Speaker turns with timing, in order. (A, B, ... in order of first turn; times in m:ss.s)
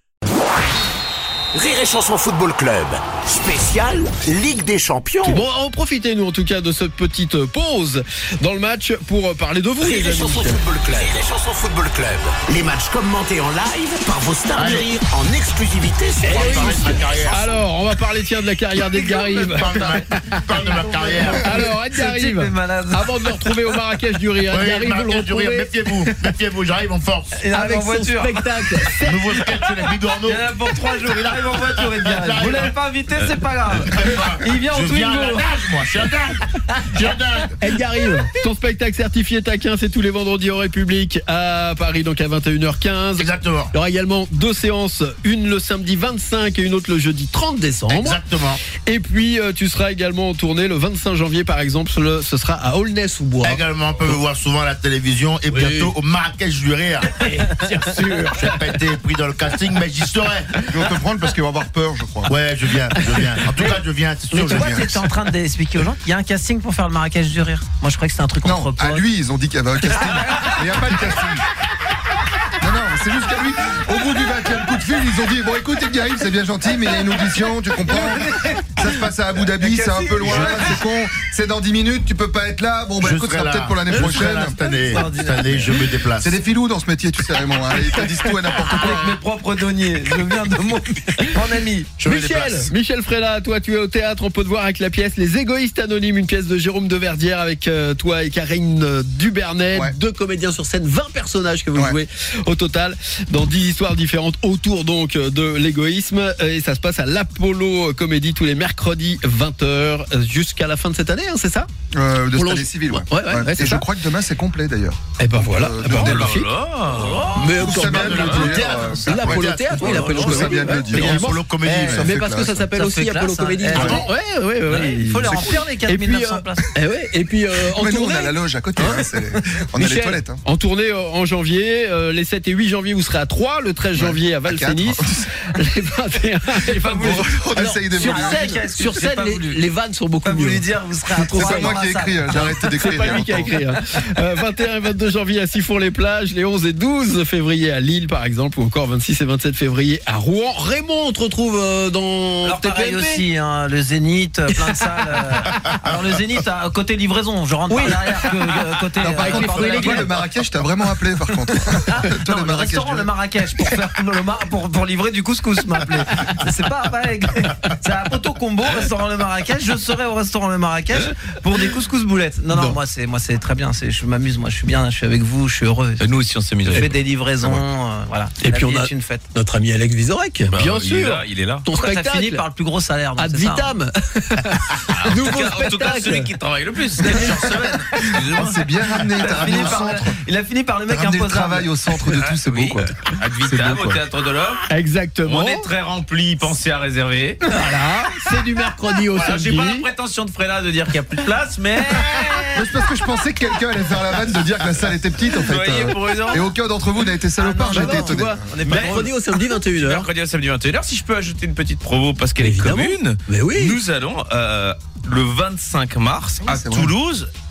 0:01.5-0:05.4 A
0:05.2-0:10.6 B
0:09.8-0:17.4 A
0:14.5-0:14.9 C
0:16.2-0:20.2 B
0:16.3-0:17.4 C
0:18.8-0:23.6 D
0:19.5-0:21.6 C
0:21.3-0:26.1 B
0:24.5-0:27.4 C
0:27.3-0:28.9 D
0:27.5-0:29.5 B
0:29.0-0:32.8 C
0:30.2-0:35.5 D
0:33.8-0:37.6 C
0:36.7-0:37.0 D
0:37.6-0:48.2 B
0:43.2-0:43.7 C
0:47.9-0:48.6 C
0:48.8-0:53.6 B
0:53.4-0:57.2 C
0:55.5-0:55.9 B
0:57.2-0:58.6 B
0:57.7-0:58.3 A
0:58.3-1:00.6 C
1:00.6-1:02.4 E
1:02.3-1:05.0 C
1:04.3-1:09.0 D
1:04.5-1:05.0 E
1:08.4-1:11.4 E
1:12.6-1:24.6 E
1:18.0-1:18.6 F
1:19.6-1:20.6 D
1:20.2-1:20.7 C
1:23.0-1:26.4 C
1:23.9-1:25.5 D
1:26.2-1:29.2 E
1:27.9-1:32.1 D
1:32.0-1:51.7 B
1:32.1-1:32.5 E
1:51.9-1:56.4 E
1:52.3-1:53.9 B
1:55.2-1:56.5 B
1:55.8-1:57.4 F
1:57.0-1:57.6 D
1:57.3-2:09.1 B
1:57.5-2:02.1 C
1:57.5-2:02.7 E
2:00.1-2:00.9 D
2:02.7-2:04.1 D
2:03.7-2:04.0 E
2:03.7-2:04.1 C
2:04.6-2:06.7 D
2:07.6-2:10.4 E
2:09.7-2:20.6 B
2:13.9-2:15.4 E
2:16.8-2:17.3 D
2:17.0-2:18.5 E
2:17.9-2:19.6 D
2:20.2-2:23.2 D
2:21.1-2:23.5 E
2:21.3-2:21.8 B
2:22.3-2:33.3 B
2:32.4-2:40.1 D
2:34.5-2:35.2 B
2:37.7-2:40.1 B
2:39.0-2:43.1 E
2:41.9-2:56.1 D
2:52.5-2:52.8 B
2:56.0-2:57.6 F
2:56.7-2:59.2 D
2:58.4-3:02.4 B
3:00.5-3:01.6 F
3:01.7-3:03.8 D
3:03.2-3:06.3 B
3:04.9-3:08.6 F
3:07.1-3:10.2 E
3:09.2-3:11.7 D
3:09.2-3:09.9 F
3:10.9-3:14.0 E
3:11.9-3:14.6 F
3:14.7-3:15.7 B
3:15.2-3:17.4 F
3:17.4-3:19.9 B
3:19.1-3:22.5 F
3:22.5-3:28.4 E
3:25.2-3:26.5 F
3:27.4-3:29.1 D
3:27.7-3:30.1 B
3:28.6-3:37.3 F
3:32.4-3:33.8 B
3:36.4-3:36.9 E